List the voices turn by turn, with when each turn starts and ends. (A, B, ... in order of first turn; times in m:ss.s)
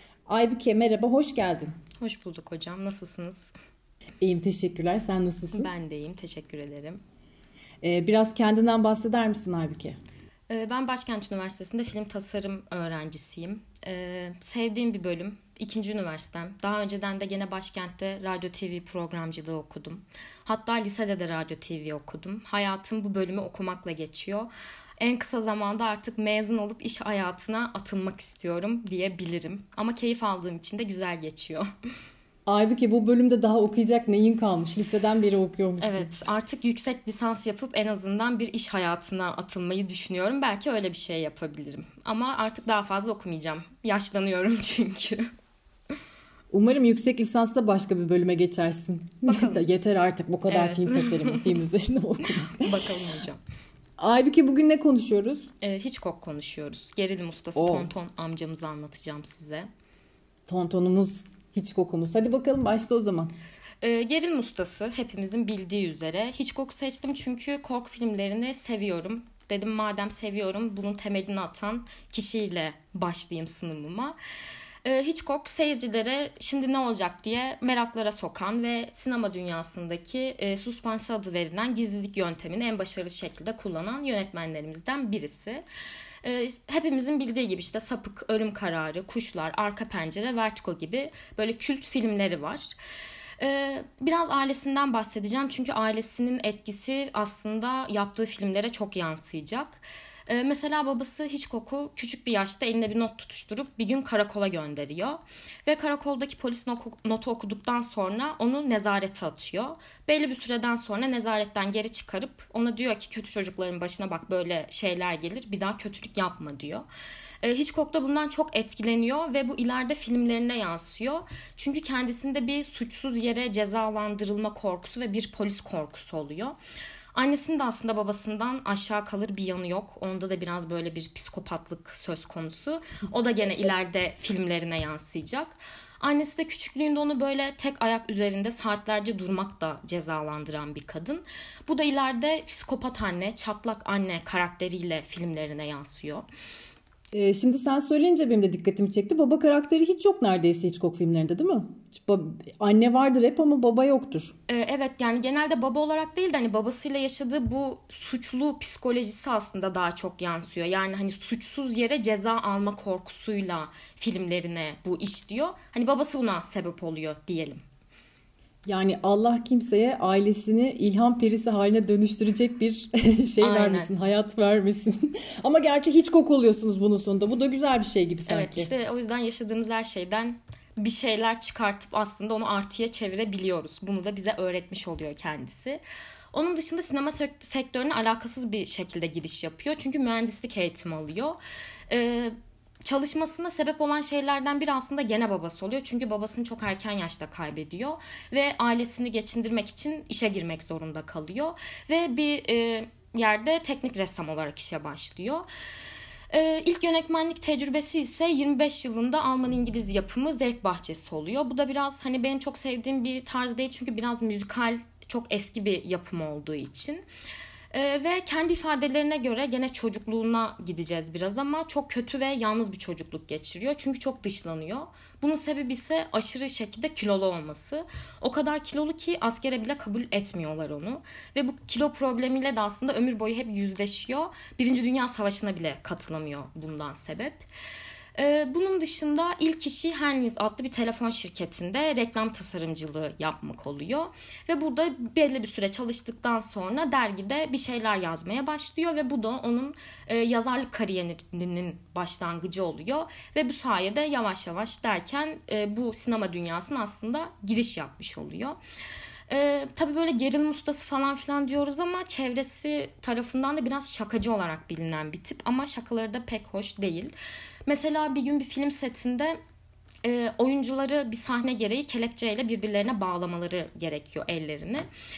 0:00.3-0:01.7 A
0:02.0-0:03.5 B
0:04.2-0:05.7 A
0:05.5-0:07.0 B
0:07.8-0:10.0 A
0:10.5-0:31.6 B
0:32.4-0:36.1 A
0:35.8-0:45.2 B
0:46.5-0:52.7 A
0:49.3-0:49.6 B
0:50.5-0:51.5 B
0:52.5-0:53.4 B
0:54.0-0:55.5 A
0:55.6-0:59.7 B
0:57.6-0:57.9 A
1:00.5-1:03.3 A
1:03.8-1:14.2 B
1:14.8-1:25.6 B
1:26.2-1:32.7 B
1:33.4-1:56.8 B
1:57.4-2:06.6 B
2:07.1-2:26.2 B
2:27.1-2:34.3 A
2:34.5-2:47.6 B
2:48.6-2:58.7 A
2:53.4-2:53.9 B
2:58.3-3:05.8 B
3:06.3-3:11.4 B
3:11.9-3:12.3 B
3:12.8-3:25.4 B
3:26.3-3:37.0 B
3:37.7-3:57.4 B
3:58.2-4:18.6 B
4:19.3-4:27.1 B
4:27.7-4:29.4 B
4:30.0-4:34.9 B